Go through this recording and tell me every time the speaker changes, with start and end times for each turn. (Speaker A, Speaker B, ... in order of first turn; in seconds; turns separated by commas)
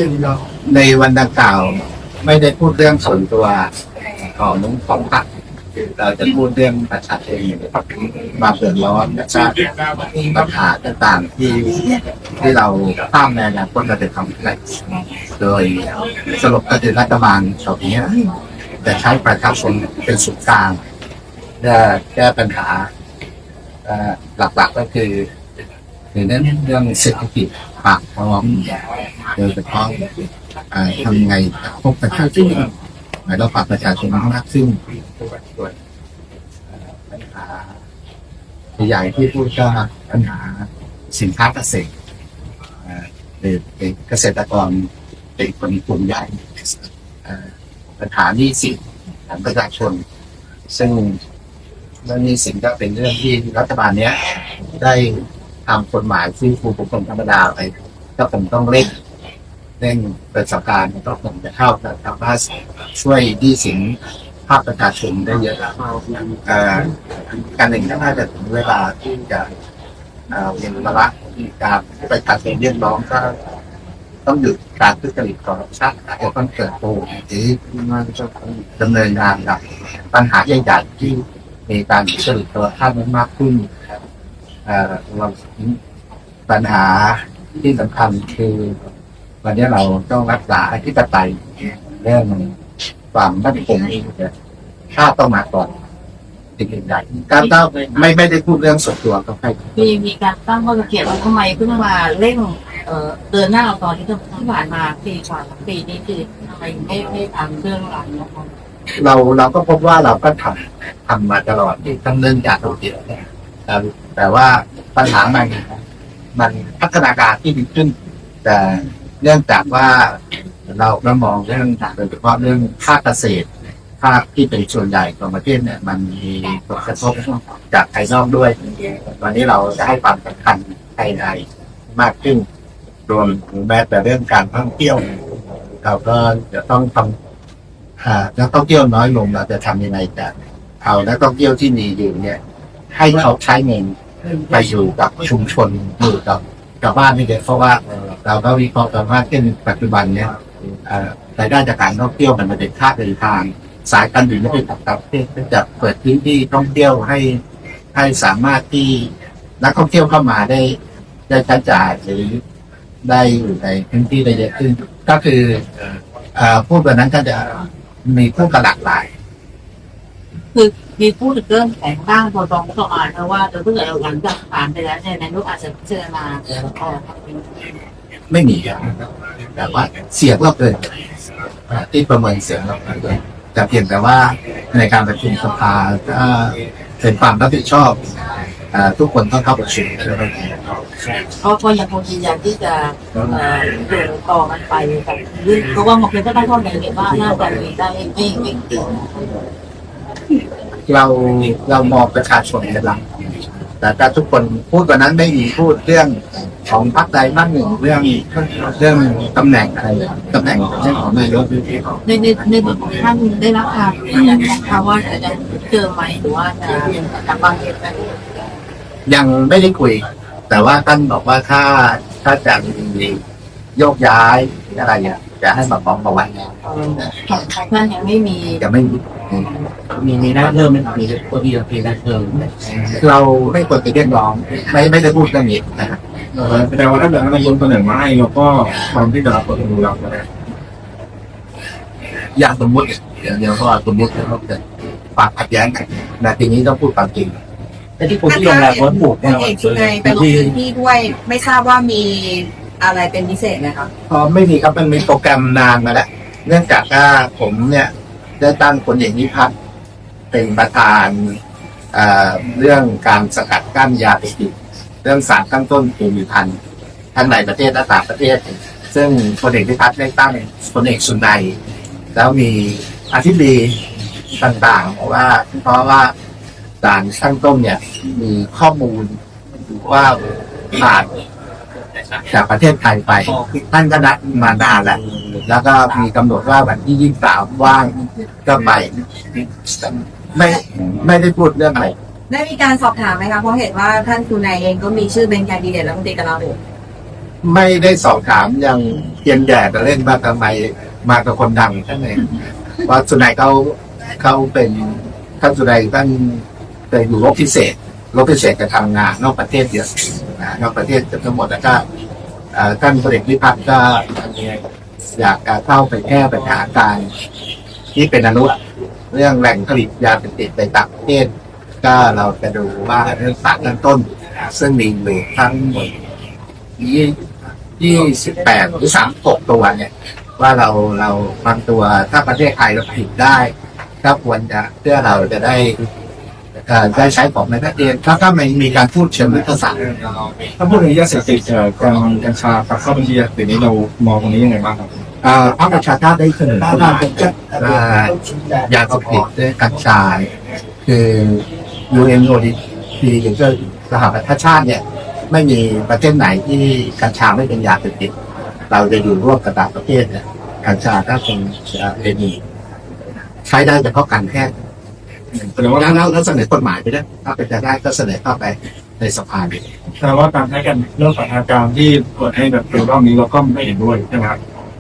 Speaker A: 0.4-3.7, Speaker A: 4.2-18.2, Speaker A: 18.8-20.8, Speaker A: 21.6-22.9, Speaker A: 23.8-25.3, Speaker A: 26.1-30.1, Speaker A: 30.7-32.7, Speaker A: 33.2-35.8, Speaker A: 36.6-37.8, Speaker A: 38.8-41.9, Speaker A: 42.8-50.0, Speaker A: 50.7-51.2, Speaker A: 52.0-59.0, Speaker A: 59.8-69.5, Speaker A: 70.3-73.3, Speaker A: 74.2-83.7, Speaker A: 84.6-85.8, Speaker A: 86.5-88.8, Speaker A: 89.4-92.5, Speaker A: 93.1-94.3, Speaker A: 94.9-95.7, Speaker A: 96.6-99.9, Speaker B: 97.4-98.1, Speaker B: 99.8-108.5, Speaker A: 109.0-115.8, Speaker A: 116.3-123.5, Speaker A: 124.0-132.4, Speaker A: 133.1-135.2, Speaker A: 135.8-137.2, Speaker A: 138.0-142.4, Speaker A: 142.9-157.4, Speaker A: 157.9-160.8, Speaker A: 161.3-162.4, Speaker A: 163.0-165.7, Speaker A: 166.3-169.1, Speaker B: 170.5-177.8, Speaker A: 178.3-179.0, Speaker A: 179.5-181.1, Speaker A: 181.7-188.0, Speaker A: 188.7-190.6, Speaker B: 191.4-199.2, Speaker A: 200.9-203.0, Speaker A: 203.8-212.0, Speaker B: 212.0-218.5, Speaker A: 219.1-223.2, Speaker A: 223.8-226.5, Speaker B: 226.6-228.6, Speaker A: 228.6-229.5, Speaker C: 229.9-232.7, Speaker A: 232.8-236.0, Speaker D: 236.3-240.2, Speaker A: 242.3-244.6, Speaker A: 245.2-247.4, Speaker A: 248.0-248.6, Speaker E: 248.2-253.9, Speaker C: 248.2-250.0, Speaker A: 254.1-259.5, Speaker A: 260.3-261.4, Speaker A: 261.9-266.6, Speaker A: 267.1-271.6, Speaker A: 272.1-273.8, Speaker A: 274.4-276.1, Speaker A: 276.8-279.2, Speaker A: 279.7-281.1, Speaker A: 282.2-291.9, Speaker E: 292.3-296.6, Speaker A: 297.4-311.8, Speaker A: 312.5-314.6, Speaker A: 315.1-317.1, Speaker A: 317.9-318.6, Speaker A: 319.1-321.3, Speaker A: 321.8-326.0, Speaker A: 326.8-335.8, Speaker A: 336.6-339.8, Speaker D: 339.9-344.9, Speaker A: 345.2-350.3, Speaker A: 350.8-358.1, Speaker A: 358.7-362.4, Speaker A: 363.4-364.5, Speaker D: 365.3-366.0, Speaker A: 365.7-369.7, Speaker D: 370.0-374.4